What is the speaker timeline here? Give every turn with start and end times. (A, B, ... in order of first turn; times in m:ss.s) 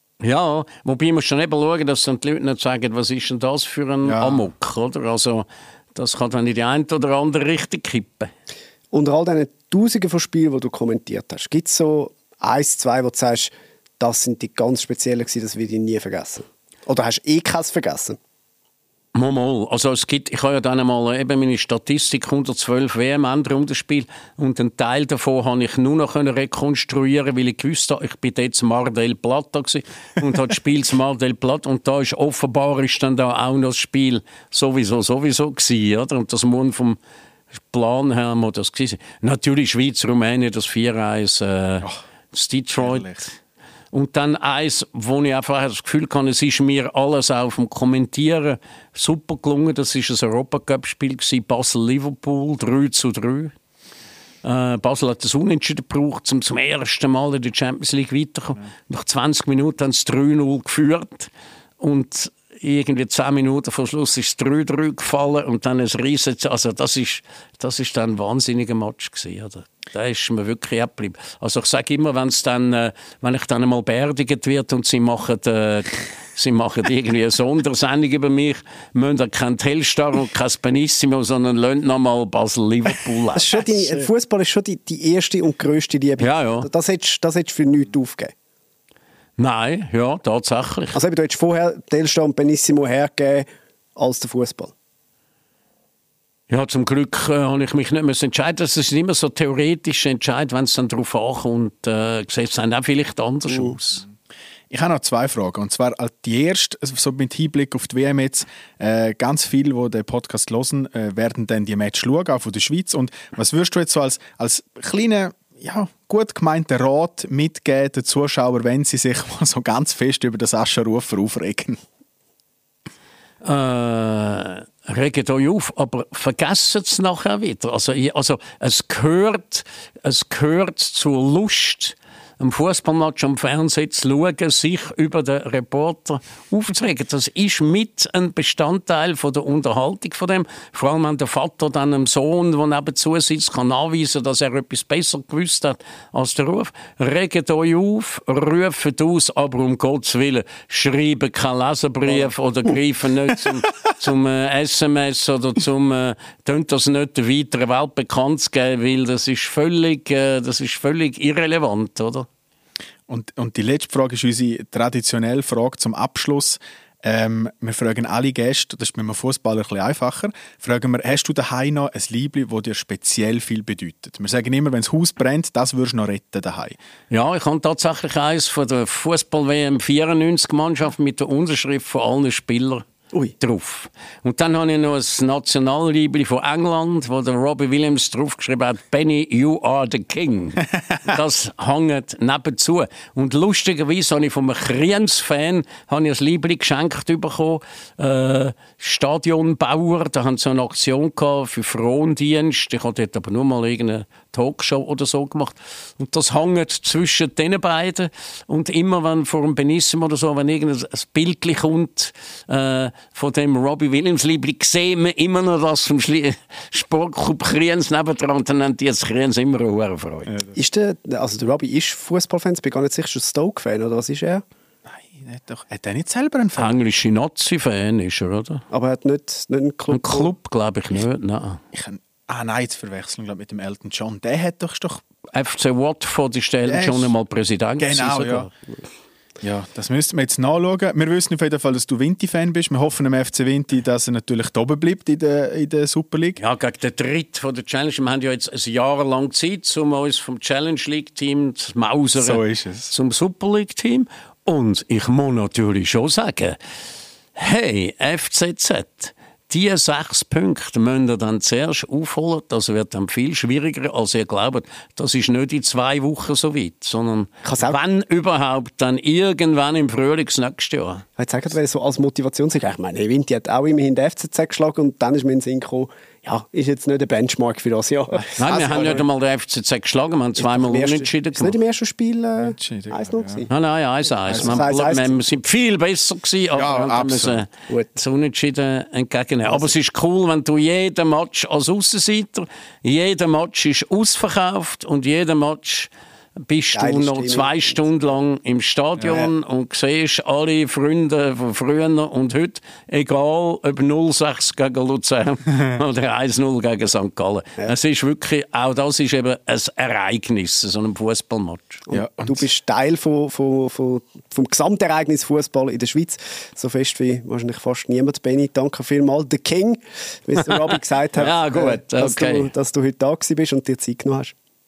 0:00.2-0:08.3 A
0:04.0-0:04.5 B
0:08.9-0:18.2 C
0:19.2-0:37.0 A
0:37.7-0:43.4 A
0:42.8-0:43.2 B
0:43.9-0:53.5 A
0:54.4-1:24.0 A
1:23.4-1:28.3 C
1:26.2-1:26.7 A
1:29.4-1:31.0 A
1:31.0-1:34.7 C
1:36.5-1:44.0 A
1:43.5-1:43.8 C
1:44.7-2:01.8 B
2:03.4-2:42.3 A
2:43.1-2:56.8 B
2:57.1-3:02.9 A
3:03.4-3:40.3 A
3:40.3-3:40.6 B
3:40.6-3:44.4 C
3:44.9-3:46.8 B
3:46.6-3:48.6 A
3:48.7-3:50.3 C
3:49.9-3:51.6 A
3:51.7-3:55.0 B
3:55.3-3:58.5 A
3:56.6-3:57.1 B
3:57.8-3:58.5 B
3:59.4-4:06.4 B
4:06.4-4:16.6 A
4:12.2-4:12.9 B
4:17.4-4:31.0 A
4:27.4-4:27.8 C
4:31.2-4:39.0 C
4:38.3-4:39.0 B
4:38.4-4:41.6 A
4:40.4-4:43.5 C
4:42.4-4:43.5 B
4:43.5-4:55.9 A
4:44.3-4:44.6 B
4:44.3-4:45.2 C
4:46.5-4:47.4 B
4:56.5-5:11.8 A
4:56.8-4:57.8 C
5:11.9-5:24.3 C
5:11.9-5:12.5 B
5:21.2-5:22.5 A